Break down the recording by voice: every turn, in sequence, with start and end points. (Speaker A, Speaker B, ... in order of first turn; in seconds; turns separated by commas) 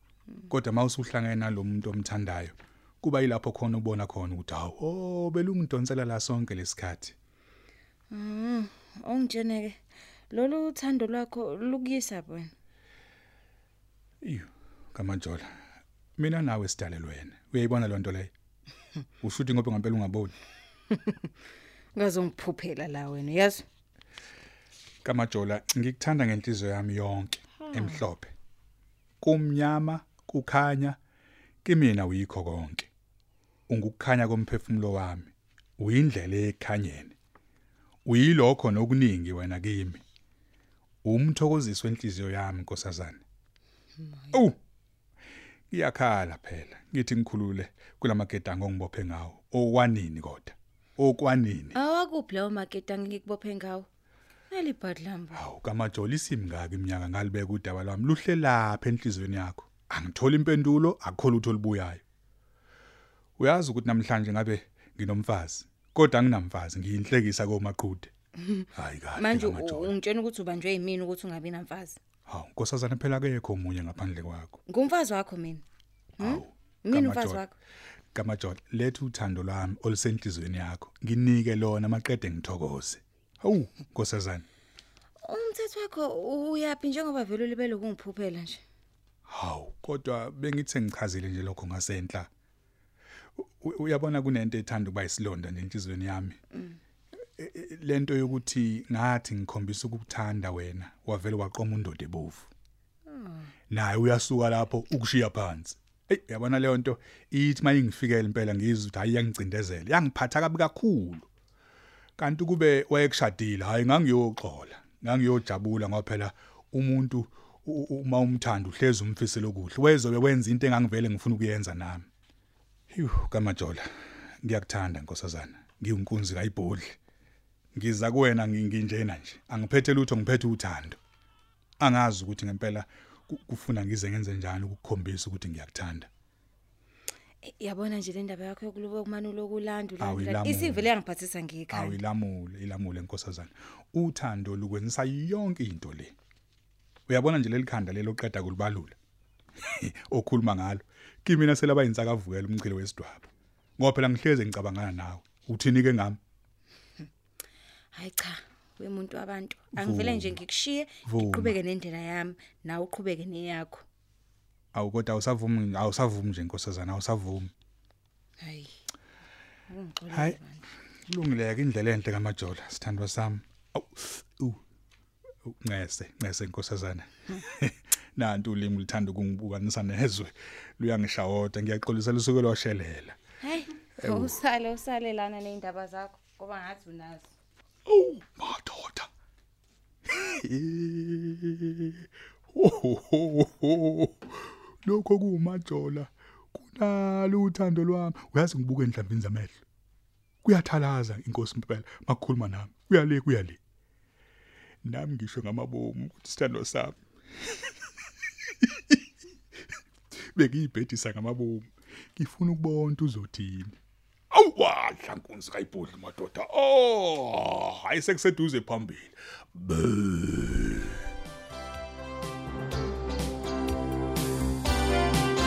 Speaker A: 0.5-7.1, Speaker B: 8.1-12.5, Speaker A: 14.2-15.5, Speaker A: 16.2-18.3, Speaker A: 19.2-20.3, Speaker B: 20.9-21.3, Speaker B: 21.9-23.6, Speaker A: 25.0-28.3, Speaker B: 27.6-28.0, Speaker A: 29.2-31.0, Speaker A: 31.6-32.9, Speaker A: 33.7-37.1, Speaker A: 38.0-40.0, Speaker A: 41.0-43.2, Speaker B: 44.0-44.4, Speaker A: 45.7-51.7, Speaker B: 51.7-53.9, Speaker B: 54.5-55.4, Speaker A: 55.3-62.0, Speaker A: 63.4-68.1, Speaker B: 68.4-72.0, Speaker A: 68.7-70.0, Speaker A: 72.3-74.6, Speaker B: 74.7-75.6, Speaker A: 76.2-77.4, Speaker B: 76.2-77.5, Speaker A: 78.1-84.4, Speaker B: 85.2-88.6, Speaker A: 89.3-92.3, Speaker A: 93.4-96.4, Speaker A: 97.4-102.5, Speaker B: 103.1-103.5, Speaker A: 103.7-111.2, Speaker A: 112.2-122.0, Speaker A: 122.9-123.9, Speaker A: 124.4-127.0, Speaker A: 127.7-131.0, Speaker A: 131.8-136.1, Speaker B: 137.4-142.0, Speaker A: 140.0-140.9, Speaker A: 141.7-146.1, Speaker A: 147.1-149.0, Speaker A: 149.6-156.2, Speaker B: 157.9-163.8, Speaker A: 159.7-160.4, Speaker A: 161.0-161.5, Speaker A: 164.7-167.5, Speaker B: 168.4-168.7, Speaker B: 169.7-170.6, Speaker A: 170.1-170.4, Speaker A: 171.1-174.6, Speaker A: 175.4-183.2, Speaker B: 183.4-187.3, Speaker A: 184.0-184.3, Speaker A: 187.9-189.1, Speaker A: 190.1-199.6, Speaker A: 200.4-203.6, Speaker A: 204.8-207.0, Speaker A: 208.6-209.0, Speaker A: 210.3-213.8, Speaker A: 214.3-221.0